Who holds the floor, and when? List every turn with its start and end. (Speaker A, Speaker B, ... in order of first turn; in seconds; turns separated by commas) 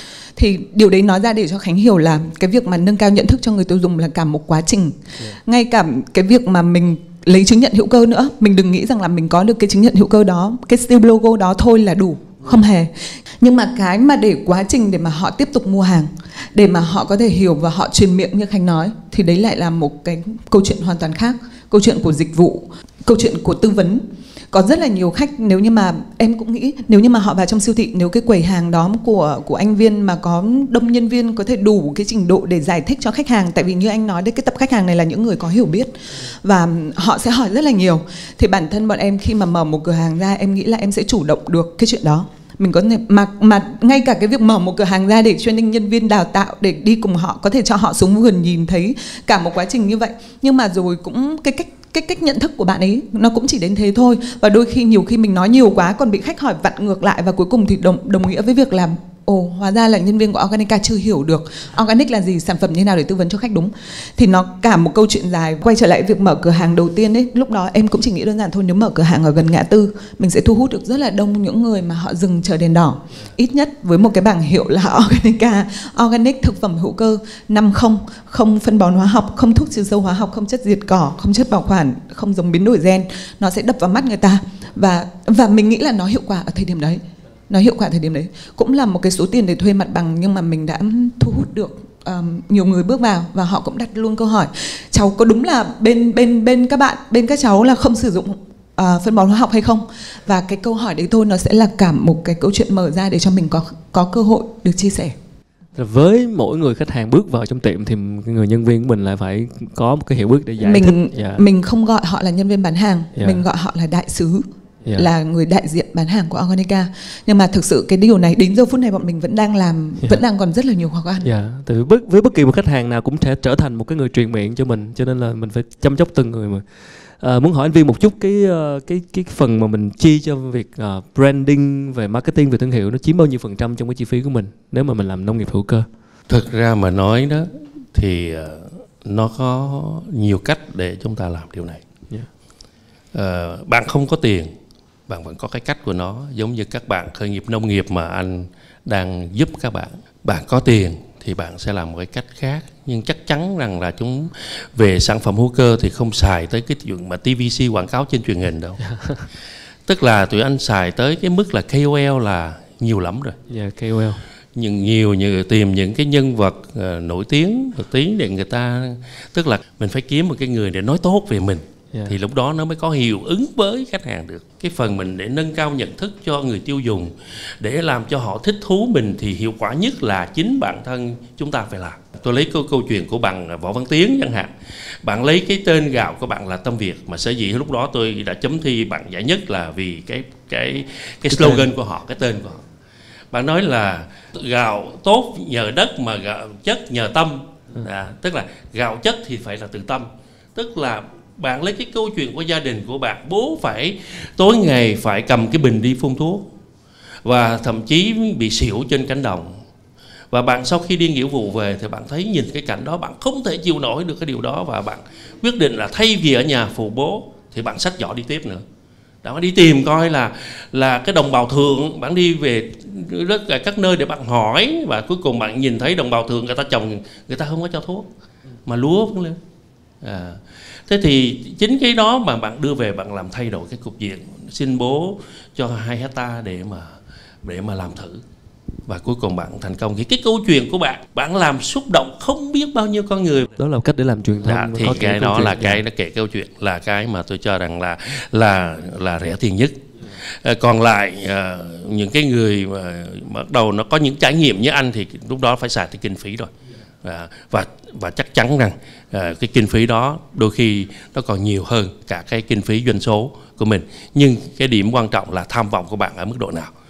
Speaker A: 0.3-105.1, Speaker B: 105.8-111.4, Speaker A: 110.6-114.4, Speaker B: 113.2-113.4, Speaker A: 114.9-121.3, Speaker B: 121.2-126.6, Speaker B: 127.2-135.9, Speaker C: 136.3-141.8, Speaker C: 143.1-144.5, Speaker C: 145.1-158.8, Speaker B: 158.9-159.2, Speaker C: 159.9-163.3, Speaker B: 163.5-164.2, Speaker C: 164.5-184.5, Speaker C: 185.0-192.6, Speaker B: 191.3-191.7, Speaker C: 193.3-206.4, Speaker C: 207.2-209.5, Speaker C: 210.3-218.6, Speaker C: 219.2-228.1, Speaker C: 228.7-229.4, Speaker C: 230.0-236.9, Speaker C: 237.4-238.2, Speaker C: 238.9-243.5, Speaker B: 243.6-245.8, Speaker C: 244.4-249.7, Speaker C: 250.4-256.5, Speaker C: 257.0-266.7